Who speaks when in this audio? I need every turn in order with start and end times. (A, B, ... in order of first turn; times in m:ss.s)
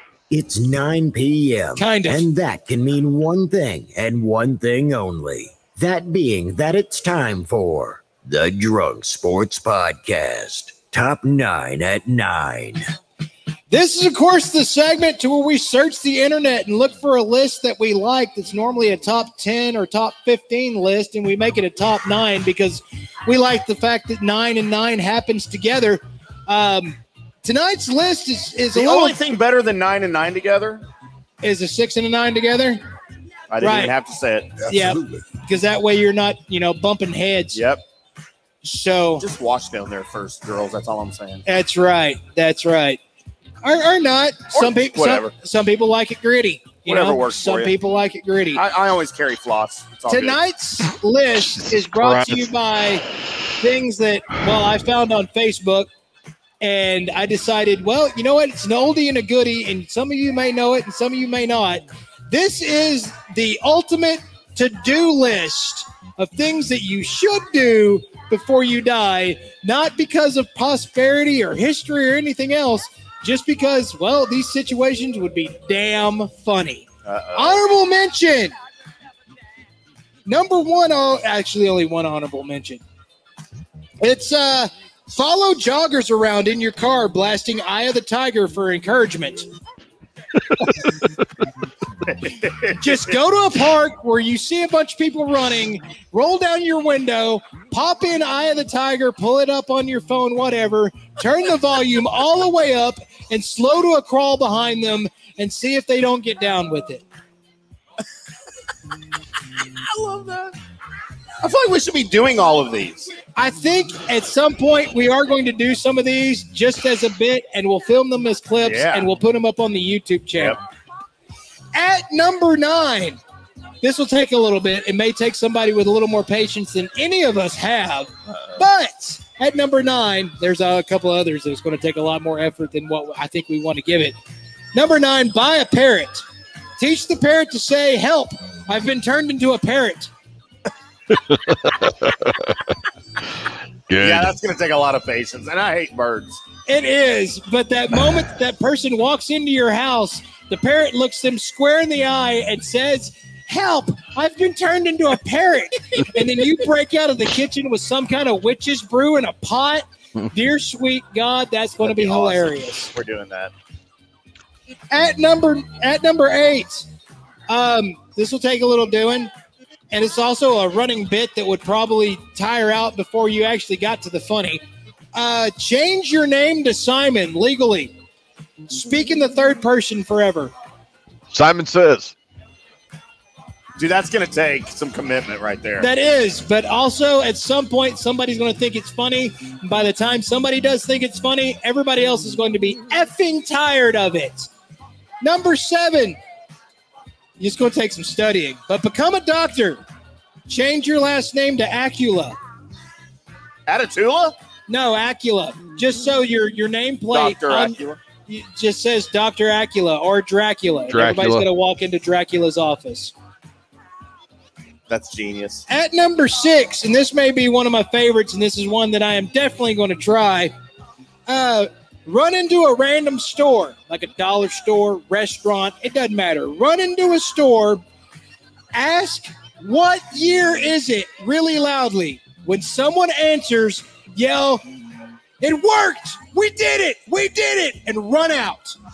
0:00.3-0:12.8 A
0:01.8-0:02.3 B
0:13.7-0:29.2 B
0:28.7-0:30.8 C
0:31.4-0:32.8 B
0:33.5-0:34.6 C
0:33.6-0:33.9 B
0:34.6-0:35.2 A
0:34.6-0:37.6 B
0:37.5-0:37.8 C
0:38.6-0:39.2 B
0:39.2-0:41.4 C
0:41.4-0:43.0 B
0:43.6-0:48.6 B
0:44.5-0:45.3 C
0:46.8-0:47.7 C
0:48.5-0:50.4 C
0:50.1-0:53.0 B
0:52.0-0:52.4 D
0:53.6-0:55.9 B
0:56.6-1:18.5 B
1:17.0-1:17.6 C
1:20.2-1:22.8 B
1:24.0-1:29.5 B
1:32.2-1:32.7 C
1:32.8-1:47.0 B
1:49.6-1:50.5 C
1:51.4-1:53.1 C
1:53.3-2:00.6 B
1:58.6-1:59.1 C
2:01.7-2:03.2 B
2:03.8-2:14.1 B
2:14.7-2:16.2 B
2:16.8-2:20.1 B
2:21.1-2:22.6 D
2:23.9-2:24.3 D
2:24.0-2:26.4 C
2:26.7-2:42.9 B
2:41.8-2:43.5 C
2:44.9-2:46.9 B
2:47.5-2:49.3 B
2:49.9-2:54.6 B
2:55.1-2:57.9 B
2:58.7-3:00.5 B
3:01.3-3:02.1 D
3:03.8-3:05.9 C
3:05.8-3:14.5 B
3:15.2-3:16.2 B
3:17.4-3:19.8 B
3:20.5-3:22.4 B
3:23.7-3:24.3 C
3:24.7-3:33.1 B
3:27.1-3:28.0 C
3:30.9-3:31.4 D
3:34.9-3:35.6 C
3:35.7-3:40.5 B
3:41.3-3:47.8 B
3:48.7-3:54.6 B
3:55.4-3:58.8 B